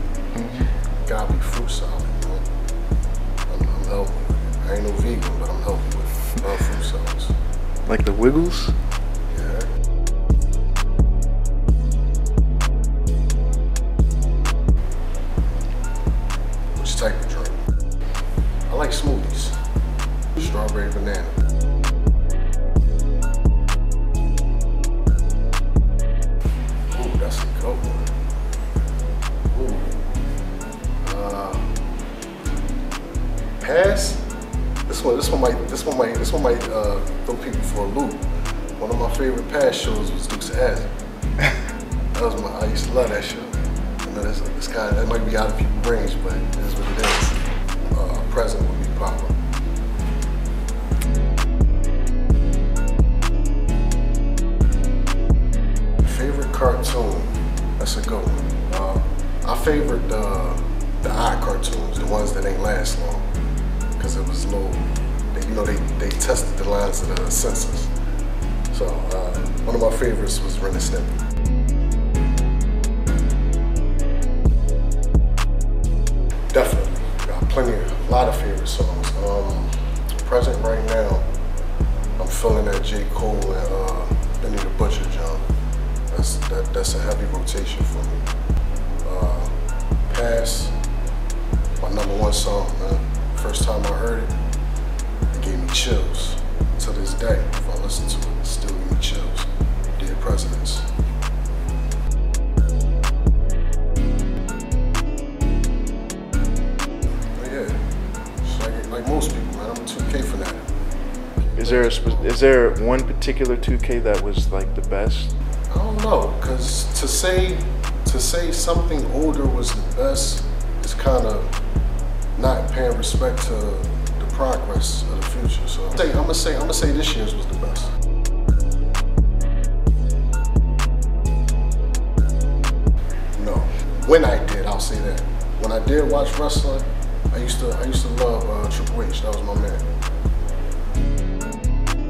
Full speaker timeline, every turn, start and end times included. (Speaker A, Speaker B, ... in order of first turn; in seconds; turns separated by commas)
Speaker A: 0.3-0.7, Speaker B: 1.0-2.4, Speaker B: 3.5-7.3, Speaker A: 7.8-8.7, Speaker B: 9.3-9.7, Speaker B: 16.7-17.6, Speaker B: 18.7-19.6, Speaker B: 20.4-21.4, Speaker B: 26.9-28.1, Speaker B: 29.5-30.0, Speaker B: 31.0-31.7, Speaker B: 33.6-34.2, Speaker B: 34.9-38.2, Speaker B: 38.8-40.9, Speaker B: 42.1-47.4, Speaker B: 47.9-49.3, Speaker B: 56.0-63.3, Speaker B: 64.0-67.9, Speaker B: 68.7-71.2, Speaker B: 76.5-81.2, Speaker B: 82.2-85.5, Speaker B: 86.1-88.2, Speaker B: 89.0-89.5, Speaker B: 90.1-90.8, Speaker B: 91.8-94.3, Speaker B: 95.3-100.9, Speaker B: 107.3-107.8, Speaker B: 108.4-110.7, Speaker B: 111.5-112.3, Speaker A: 111.6-115.3, Speaker B: 115.7-121.5, Speaker B: 122.3-127.9, Speaker B: 133.3-139.8